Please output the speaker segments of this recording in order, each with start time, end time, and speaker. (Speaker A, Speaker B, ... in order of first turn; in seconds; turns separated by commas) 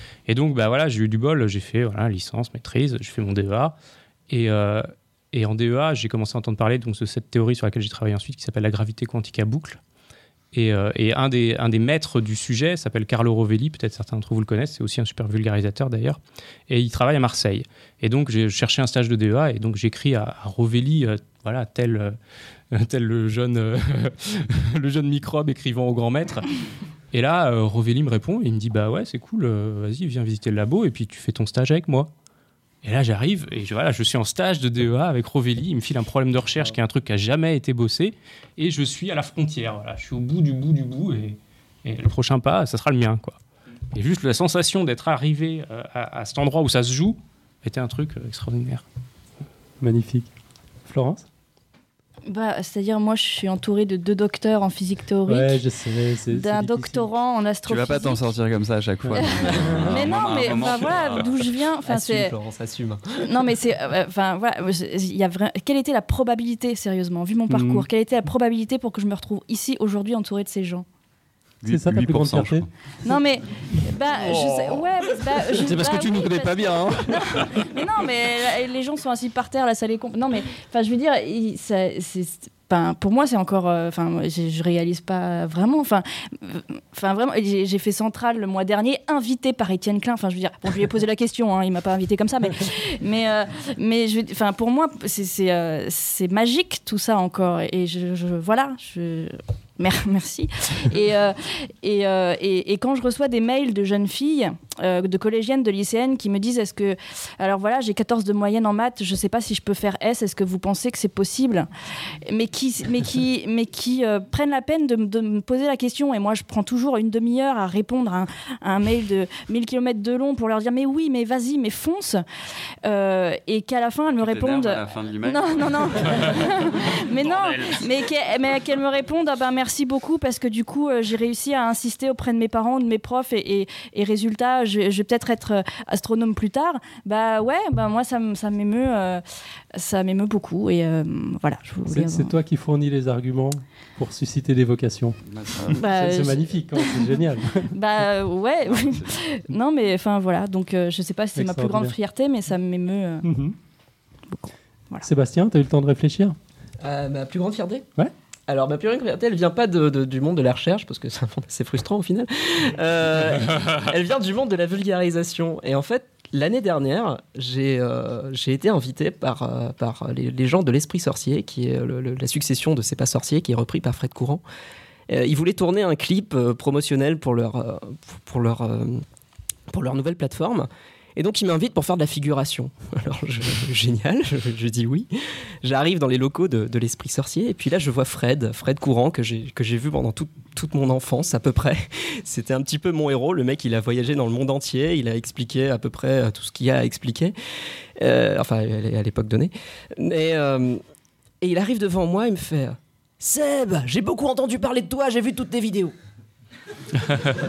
Speaker A: 0.3-3.8, Speaker A: 4.3-9.8, Speaker A: 10.5-22.2, Speaker A: 22.7-26.5, Speaker A: 27.1-32.1, Speaker A: 32.8-43.4, Speaker A: 43.9-48.9, Speaker B: 49.8-50.3, Speaker B: 50.9-51.3, Speaker C: 52.3-55.6, Speaker B: 55.3-57.1, Speaker C: 56.3-58.3, Speaker D: 57.7-61.5, Speaker B: 59.0-60.1, Speaker C: 59.1-62.4, Speaker E: 61.9-63.4, Speaker C: 63.2-70.8, Speaker B: 67.5-67.8, Speaker D: 71.6-72.7, Speaker B: 71.7-72.7, Speaker C: 73.0-111.7, Speaker D: 76.3-76.8, Speaker C: 112.3-122.2, Speaker C: 122.8-139.2, Speaker D: 124.2-127.0, Speaker A: 127.5-127.8, Speaker C: 139.7-142.3, Speaker B: 141.9-147.7, Speaker D: 145.2-145.8, Speaker C: 145.8-153.3, Speaker D: 148.7-149.2, Speaker B: 151.4-151.9, Speaker B: 153.2-153.6, Speaker C: 154.3-155.1, Speaker B: 155.0-156.4, Speaker E: 156.8-157.9, Speaker E: 158.5-174.4, Speaker E: 175.1-179.0, Speaker E: 179.7-185.1, Speaker E: 185.6-197.3, Speaker E: 198.0-200.8, Speaker E: 201.4-205.9